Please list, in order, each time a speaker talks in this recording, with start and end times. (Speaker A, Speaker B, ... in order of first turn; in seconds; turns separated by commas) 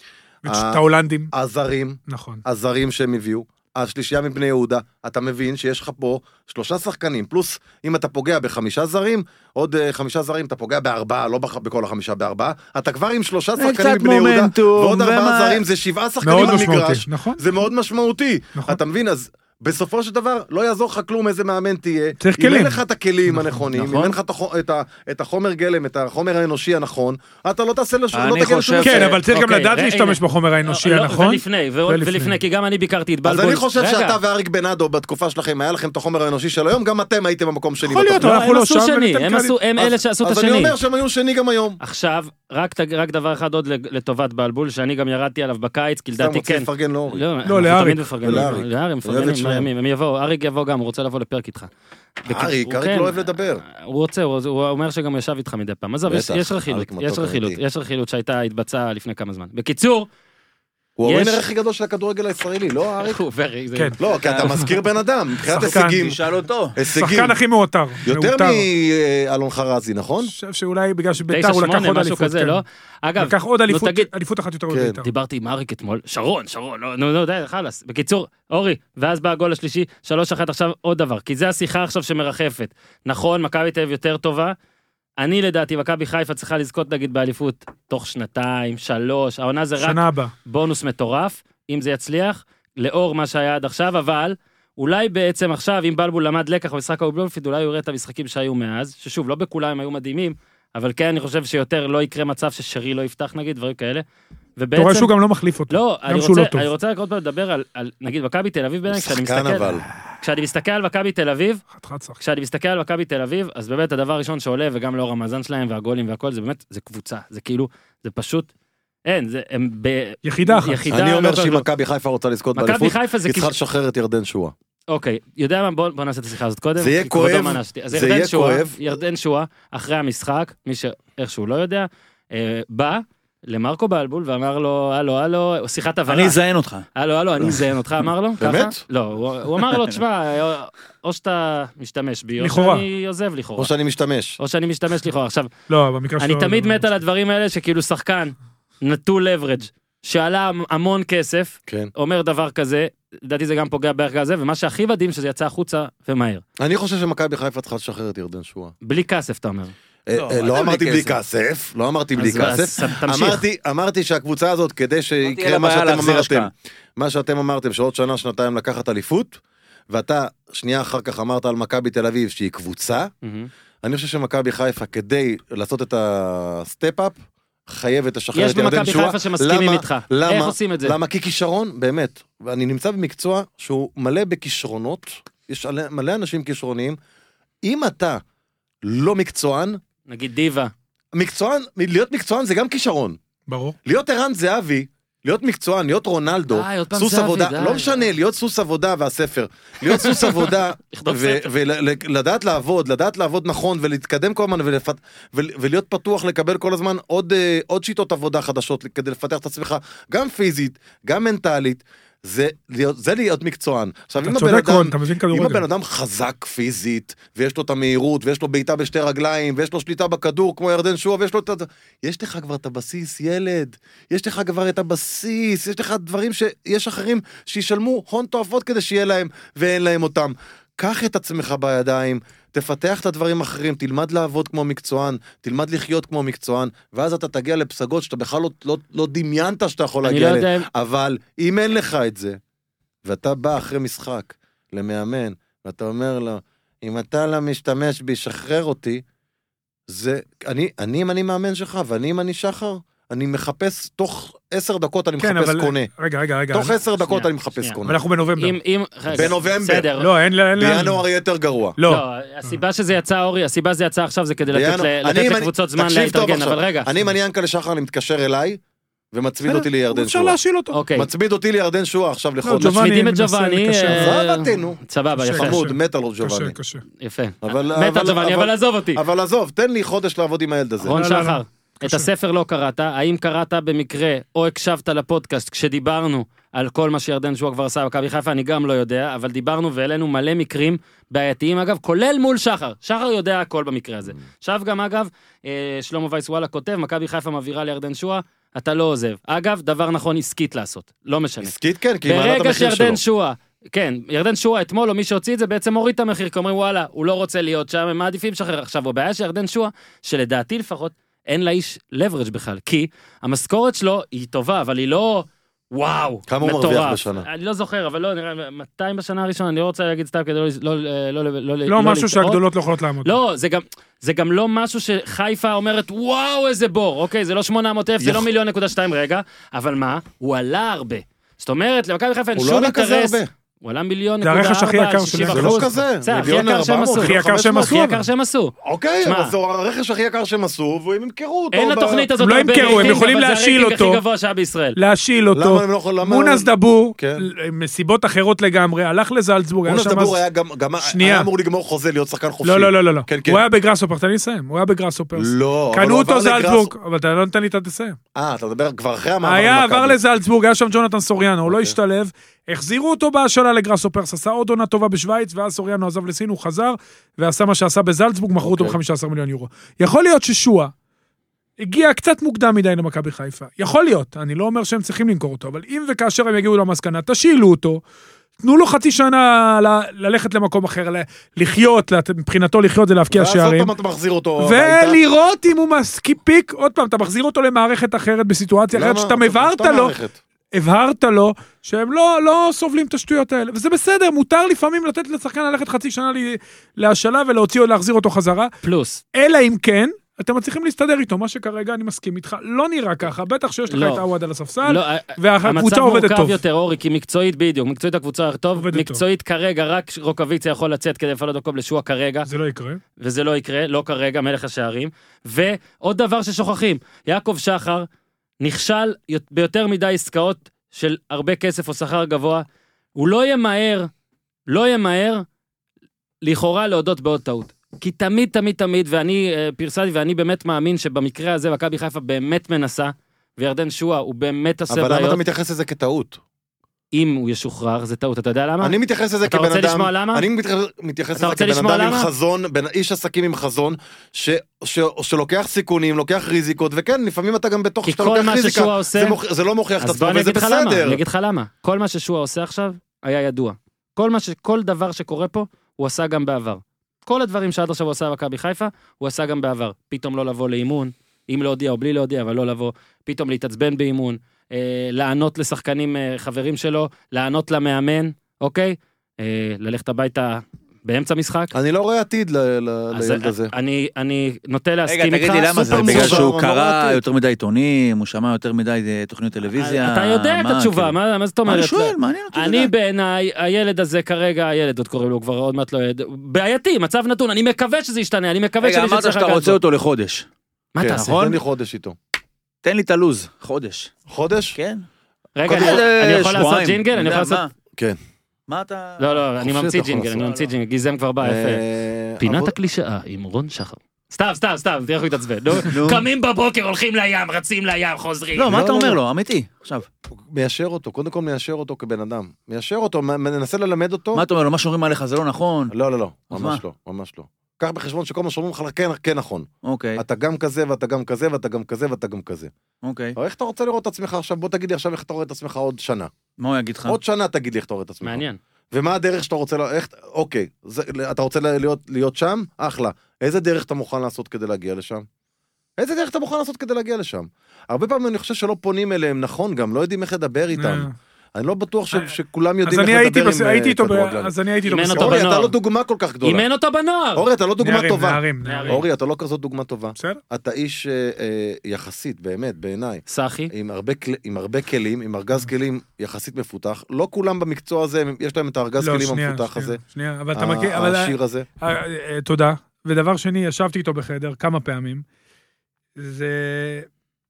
Speaker A: 0.4-1.3, Speaker B: 0.4-29.2, Speaker A: 2.1-2.4, Speaker C: 13.6-15.6, Speaker A: 16.2-17.4, Speaker A: 22.2-23.6, Speaker C: 23.8-24.1, Speaker C: 28.1-29.1, Speaker A: 28.8-32.4, Speaker D: 29.2-34.2, Speaker B: 33.2-38.4, Speaker A: 37.8-39.5, Speaker D: 38.2-40.8, Speaker B: 39.8-41.8, Speaker D: 41.8-51.7, Speaker B: 46.2-47.2, Speaker A: 47.5-48.5, Speaker B: 48.2-49.7, Speaker D: 52.2-60.1, Speaker B: 52.2-53.6, Speaker B: 56.1-57.6, Speaker B: 61.0-63.2, Speaker D: 61.1-61.4, Speaker D: 63.0-64.7, Speaker B: 64.0-66.2, Speaker C: 64.2-64.5, Speaker A: 65.5-66.0, Speaker C: 65.9-66.8, Speaker B: 66.7-67.4, Speaker A: 66.9-68.6, Speaker B: 68.0-70.3, Speaker A: 70.3-72.6, Speaker D: 71.3-74.1, Speaker A: 73.2-75.0, Speaker B: 74.7-75.0, Speaker D: 75.0-84.5, Speaker D: 85.2-104.0, Speaker A: 89.8-90.3, Speaker D: 104.6-105.1, Speaker A: 104.8-106.7, Speaker D: 105.7-111.6, Speaker B: 108.9-109.9, Speaker A: 111.7-112.2, Speaker D: 112.2-118.5, Speaker D: 119.0-121.7, Speaker A: 120.2-120.8, Speaker B: 120.9-124.5, Speaker D: 122.5-123.5, Speaker D: 124.9-136.4, Speaker B: 126.8-128.8, Speaker C: 136.1-136.9, Speaker D: 136.9-143.7, Speaker B: 138.4-138.8, Speaker C: 139.7-140.0, Speaker A: 142.4-142.8, Speaker B: 143.6-144.4, Speaker D: 144.4-145.5, Speaker A: 145.7-146.8, Speaker D: 146.2-156.4, Speaker B: 156.6-158.7, Speaker D: 158.8-159.7, Speaker B: 160.1-169.4, Speaker C: 160.1-160.6, Speaker D: 160.5-161.1, Speaker D: 162.2-163.4, Speaker C: 165.2-166.5, Speaker B: 169.9-173.1, Speaker D: 173.2-173.5, Speaker B: 173.8-187.0, Speaker D: 178.3-180.9, Speaker B: 187.6-188.2, Speaker B: 188.8-189.8, Speaker D: 190.1-190.7, Speaker B: 191.1-193.2, Speaker A: 193.5-193.8, Speaker B: 193.8-242.4, Speaker D: 196.5-198.0, Speaker D: 199.9-201.5, Speaker A: 214.2-215.6, Speaker D: 240.0-240.7, Speaker B: 243.0-249.0, Speaker B: 249.9-255.9, Speaker A: 255.2-256.7, Speaker B: 256.5-258.0, Speaker D: 257.0-257.8, Speaker A: 257.8-258.6, Speaker D: 258.4-260.1, Speaker B: 259.1-259.9, Speaker A: 260.0-261.0, Speaker B: 260.6-261.8, Speaker A: 261.8-262.6, Speaker D: 261.9-266.9, Speaker B: 264.5-268.6, Speaker B: 269.1-270.4, Speaker A: 269.4-270.8, Speaker D: 270.7-271.1, Speaker B: 270.9-272.9, Speaker A: 272.4-274.1, Speaker D: 272.6-275.6, Speaker B: 273.9-274.8, Speaker A: 275.2-276.8, Speaker B: 275.3-276.6, Speaker D: 277.0-279.0, Speaker B: 277.4-280.9, Speaker D: 280.8-301.5, Speaker A: 280.9-282.1, Speaker B: 301.4-303.0, Speaker D: 302.0-322.4, Speaker B: 316.3-317.3, Speaker A: 321.7-323.1, Speaker D: 323.0-339.3, Speaker B: 328.0-328.3, Speaker B: 332.4-333.3, Speaker A: 334.2-335.6, Speaker B: 335.2-337.7, Speaker A: 337.0-338.1, Speaker B: 338.6-343.0, Speaker D: 341.5-344.8, Speaker A: 342.2-344.0, Speaker A: 344.8-350.1, Speaker B: 345.3-347.3, Speaker B: 349.6-353.4, Speaker A: 350.8-351.3, Speaker A: 352.4-358.0, Speaker B: 355.2-356.7, Speaker B: 358.1-360.0, Speaker A: 359.2-370.7, Speaker B: 361.4-361.8, Speaker B: 368.4-368.8, Speaker A: 371.6-377.8, Speaker A: 378.4-383.7, Speaker B: 383.1-385.0, Speaker A: 384.4-389.9, Speaker B: 388.7-390.2, Speaker A: 390.5-398.5, Speaker D: 398.6-399.0, Speaker A: 399.1-406.4, Speaker D: 403.7-404.0, Speaker D: 404.6-412.3, Speaker A: 408.6-409.0, Speaker A: 412.2-412.8, Speaker D: 413.0-417.9, Speaker D: 418.4-422.4, Speaker D: 422.9-423.9, Speaker D: 424.5-425.2, Speaker D: 426.2-435.2, Speaker B: 434.7-436.2, Speaker D: 436.9-440.2, Speaker B: 438.6-451.0, Speaker D: 441.2-442.1, Speaker D: 447.8-449.2, Speaker D: 449.8-471.5, Speaker B: 471.5-473.5, Speaker D: 472.9-476.3, Speaker C: 474.9-480.9, Speaker B: 475.5-477.0, Speaker D: 479.6-489.6, Speaker C: 481.4-482.7, Speaker C: 488.6-490.3, Speaker D: 490.7-491.2, Speaker B: 490.8-492.0, Speaker C: 491.0-491.4, Speaker C: 492.6-493.9, Speaker B: 494.1-494.6, Speaker C: 494.6-494.8, Speaker D: 495.4-497.4, Speaker B: 495.4-495.8, Speaker C: 495.5-497.5, Speaker C: 498.5-499.2, Speaker D: 499.0-501.6, Speaker B: 499.4-500.3, Speaker C: 500.2-500.5, Speaker B: 501.2-502.5, Speaker D: 502.2-508.6, Speaker C: 505.6-506.0, Speaker C: 508.4-509.9, Speaker B: 508.5-509.0, Speaker B: 510.1-514.2, Speaker C: 514.1-515.7, Speaker B: 515.7-522.5, Speaker C: 516.3-516.6, Speaker C: 519.6-520.0, Speaker C: 522.8-523.1, Speaker B: 523.1-526.1, Speaker C: 526.4-527.0, Speaker B: 526.9-535.0, Speaker D: 528.0-528.4, Speaker B: 535.8-544.3, Speaker A: 540.5-540.9, Speaker A: 542.6-545.2, Speaker D: 544.7-545.5, Speaker B: 544.9-546.4, Speaker D: 546.2-547.2, Speaker B: 547.1-559.8, Speaker A: 547.6-548.8, Speaker D: 548.4-548.8, Speaker D: 553.1-553.5, Speaker A: 558.8-565.0, Speaker B: 560.3-561.5, Speaker A: 566.0-566.9